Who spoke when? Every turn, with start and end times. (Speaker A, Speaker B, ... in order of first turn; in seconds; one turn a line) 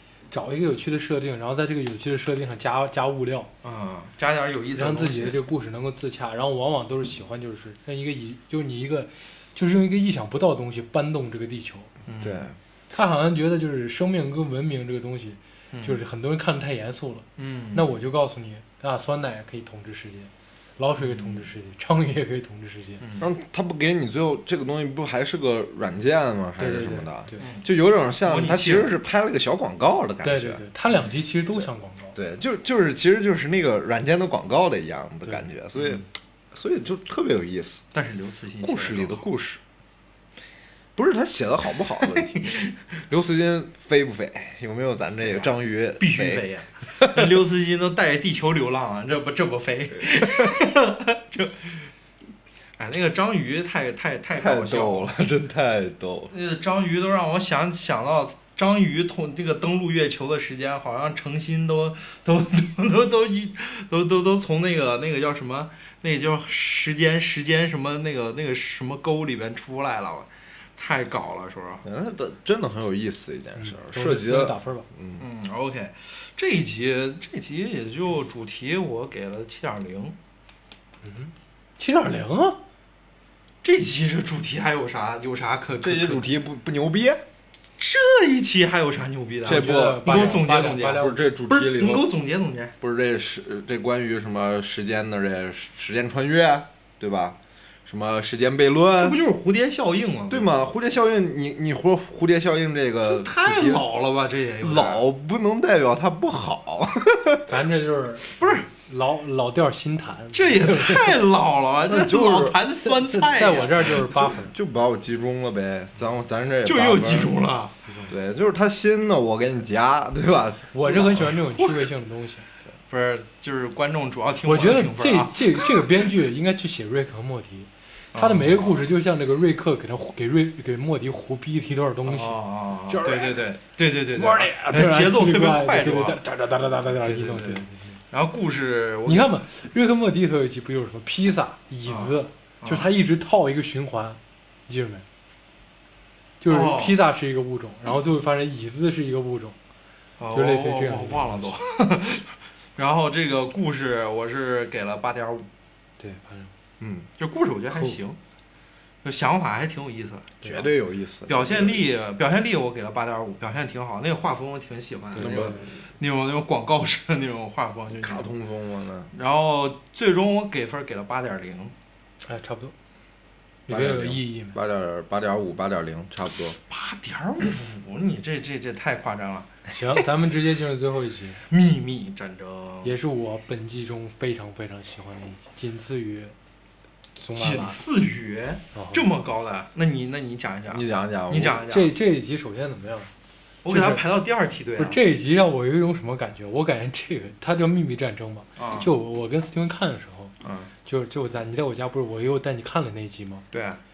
Speaker A: 0.3-3.5
Speaker B: 3.6-5.4
Speaker A: 4.7-11.9
Speaker B: 12.1-12.5
Speaker C: 12.2-12.6
Speaker A: 12.9-23.0
Speaker B: 15.7-16.0
Speaker B: 17.4-17.9
Speaker B: 21.0-21.5
Speaker B: 23.0-23.3
Speaker C: 23.2-30.6
Speaker A: 26.6-27.4
Speaker B: 27.4-27.7
Speaker B: 28.2-28.9
Speaker A: 30.2-32.1
Speaker C: 31.6-37.8
Speaker A: 35.2-36.0
Speaker B: 37.9-39.2
Speaker C: 38.6-39.6
Speaker C: 41.0-42.5
Speaker B: 42.0-42.8
Speaker C: 43.1-47.4
Speaker B: 45.2-51.9
Speaker C: 50.1-50.5
Speaker B: 52.8-55.1
Speaker C: 54.4-56.3
Speaker B: 56.3-71.8
Speaker C: 71.8-75.2
Speaker A: 73.6-74.9
Speaker B: 75.2-80.2
Speaker A: 81.0-82.6
Speaker B: 83.6-86.3
Speaker C: 85.8-87.2
Speaker B: 87.8-92.7
Speaker C: 89.4-92.1
Speaker A: 89.4-91.2
Speaker C: 92.8-99.2
Speaker B: 99.0-100.5
Speaker C: 100.3-103.8
Speaker B: 103.0-105.0
Speaker C: 104.6-107.5
Speaker A: 107.5-111.2
Speaker B: 108.4-108.7
Speaker B: 110.3-114.1
Speaker C: 111.8-112.6
Speaker A: 112.8-114.5
Speaker C: 114.2-117.3
Speaker B: 116.6-117.7
Speaker A: 117.8-118.1
Speaker C: 118.1-121.3
Speaker A: 120.7-122.5
Speaker B: 121.3-121.9
Speaker B: 122.9-125.9
Speaker A: 124.4-133.4
Speaker B: 128.1-128.8
Speaker B: 132.1-136.2
Speaker A: 134.1-138.0
Speaker B: 137.0-139.4
Speaker A: 139.1-145.0
Speaker B: 141.8-142.9
Speaker A: 146.4-149.6
Speaker B: 146.5-147.0
Speaker B: 150.2-155.5
Speaker A: 150.3-151.5
Speaker A: 156.0-156.5
Speaker C: 156.8-157.1
Speaker B: 157.2-158.2
Speaker B: 159.0-160.4
Speaker C: 160.4-162.0
Speaker B: 161.3-168.3
Speaker A: 165.1-165.7
Speaker C: 165.1-165.7
Speaker C: 168.0-169.1
Speaker B: 169.1-171.7
Speaker A: 172.2-172.7
Speaker A: 173.7-174.6
Speaker C: 173.7-176.6
Speaker B: 176.6-179.6
Speaker A: 179.7-181.4
Speaker B: 181.5-183.0
Speaker A: 182.8-186.3
Speaker A: 187.2-187.8
Speaker B: 187.3-191.9
Speaker A: 188.7-189.1
Speaker C: 190.7-191.6
Speaker A: 191.7-193.1
Speaker B: 193.6-195.0
Speaker A: 193.7-194.0
Speaker A: 194.8-200.3
Speaker B: 198.6-198.9
Speaker B: 200.4-200.7
Speaker A: 200.8-203.4
Speaker B: 203.5-203.8